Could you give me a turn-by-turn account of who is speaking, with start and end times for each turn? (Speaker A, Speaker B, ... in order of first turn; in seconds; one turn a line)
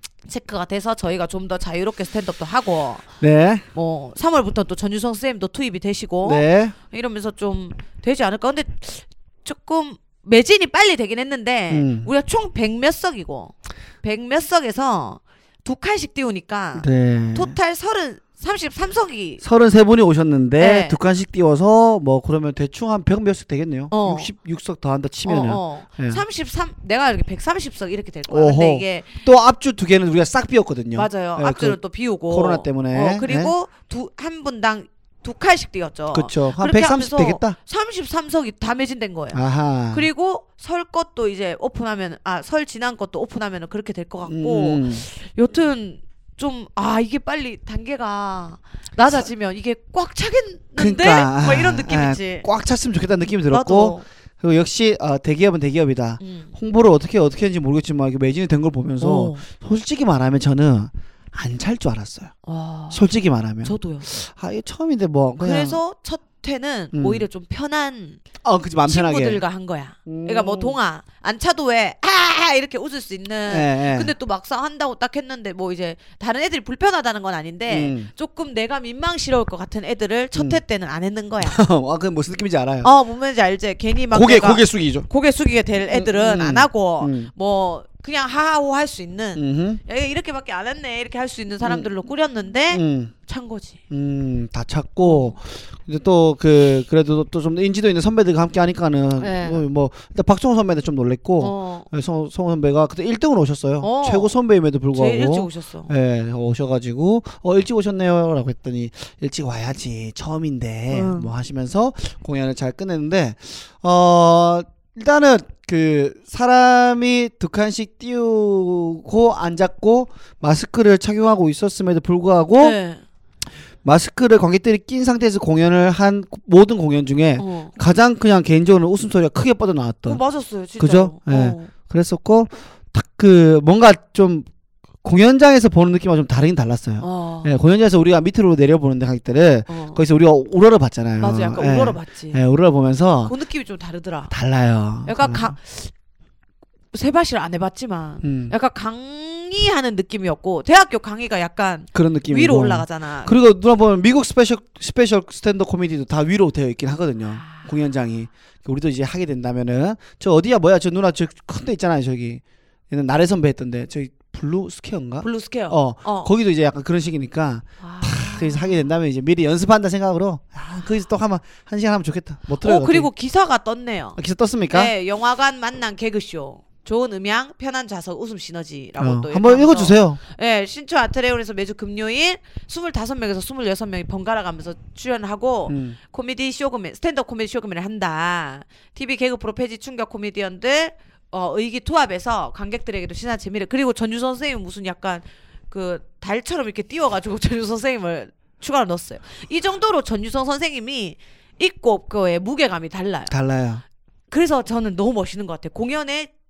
Speaker A: 0.3-3.1
Speaker B: 3.2-3.6
Speaker A: 3.7-19.4
Speaker B: 6.2-6.8
Speaker B: 11.7-12.1
Speaker B: 16.8-17.6
Speaker B: 19.4-26.2
Speaker A: 20.6-21.0
Speaker A: 23.9-24.3
Speaker A: 25.3-29.2
Speaker B: 28.3-33.5
Speaker A: 30.9-52.5
Speaker B: 36.1-37.6
Speaker B: 39.3-40.1
Speaker B: 44.3-45.1
Speaker B: 50.8-62.3
Speaker A: 53.5-54.0
Speaker A: 56.2-56.5
Speaker A: 59.0-59.5
Speaker A: 62.5-63.0
Speaker B: 62.9-65.8
Speaker A: 63.6-64.1
Speaker A: 65.4-68.2
Speaker B: 66.9-67.2
Speaker B: 68.4-69.4
Speaker A: 68.9-81.6
Speaker B: 70.1-70.8
Speaker B: 73.5-74.1
Speaker B: 77.7-78.1
Speaker B: 80.3-80.6
Speaker B: 81.4-82.9
Speaker A: 82.8-93.8
Speaker B: 84.1-85.1
Speaker B: 85.9-87.3
Speaker B: 89.4-89.8
Speaker B: 91.6-91.9
Speaker B: 92.7-93.1
Speaker B: 93.9-122.8
Speaker A: 95.0-95.4
Speaker A: 99.2-99.6
Speaker A: 101.4-101.9
Speaker A: 103.8-104.3
Speaker A: 104.9-105.9
Speaker A: 110.9-111.3
Speaker A: 122.6-123.0
Speaker B: 123.8-130.2
Speaker A: 127.4-127.8
Speaker A: 130.1-131.7
Speaker B: 130.8-134.5
Speaker B: 135.0-143.3
Speaker A: 137.0-137.5
Speaker A: 139.7-140.0
Speaker A: 141.2-142.4
Speaker A: 143.2-144.3
Speaker B: 144.3-145.5
Speaker A: 145.1-145.9
Speaker A: 146.9-153.3
Speaker B: 148.2-148.6
Speaker B: 151.9-173.1
Speaker A: 165.2-166.3
Speaker A: 167.8-168.9
Speaker A: 172.6-174.2
Speaker B: 174.2-174.9
Speaker A: 174.7-203.3
Speaker B: 179.0-180.2
Speaker B: 185.7-186.0
Speaker B: 203.3-203.8
Speaker A: 204.3-206.3